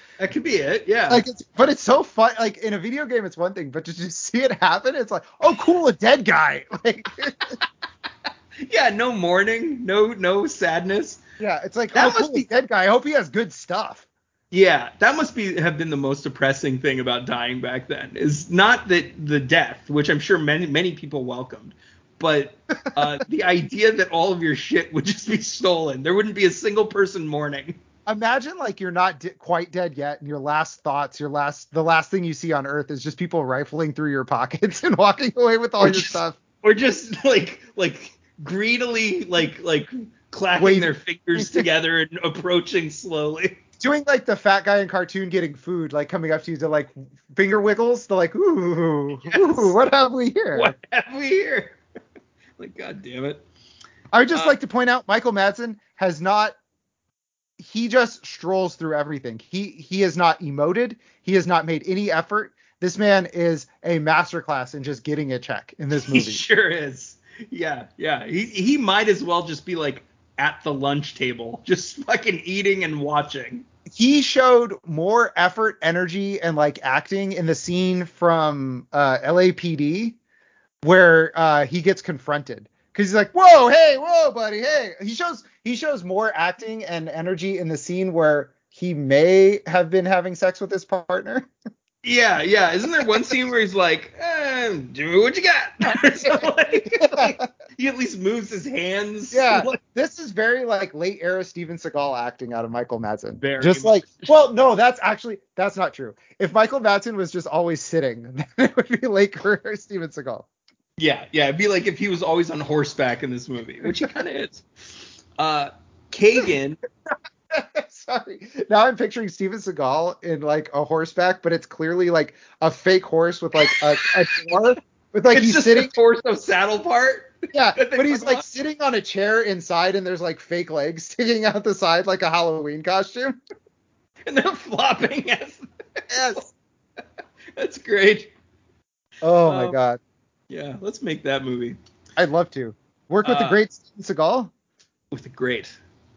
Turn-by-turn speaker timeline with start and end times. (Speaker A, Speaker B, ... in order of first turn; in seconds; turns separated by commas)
Speaker A: 0.2-1.2, Speaker B: 1.1-7.6, Speaker A: 8.7-11.2, Speaker B: 11.4-14.1, Speaker A: 11.9-12.5, Speaker A: 14.5-27.8, Speaker B: 28.1-36.4, Speaker A: 35.8-43.6, Speaker B: 40.6-41.7, Speaker B: 43.8-50.7, Speaker A: 49.2-49.8, Speaker A: 50.5-51.8, Speaker A: 52.6-53.4, Speaker B: 54.1-56.6, Speaker B: 57.6-66.4, Speaker A: 66.0-73.7, Speaker B: 73.9-80.2, Speaker B: 80.8-91.5, Speaker A: 92.0-99.8, Speaker B: 95.9-97.5, Speaker B: 99.3-110.5, Speaker A: 103.4-104.3, Speaker A: 111.0-114.7, Speaker B: 113.8-114.1, Speaker A: 115.4-116.8, Speaker B: 117.5-125.9, Speaker A: 123.7-124.6, Speaker A: 125.3-128.4, Speaker B: 127.5-133.4, Speaker A: 134.3-136.5, Speaker B: 136.2-136.4, Speaker A: 137.6-138.3, Speaker B: 139.2-140.0, Speaker A: 139.4-139.8, Speaker A: 140.5-141.8, Speaker B: 142.2-144.5, Speaker A: 143.2-143.6, Speaker A: 145.1-145.8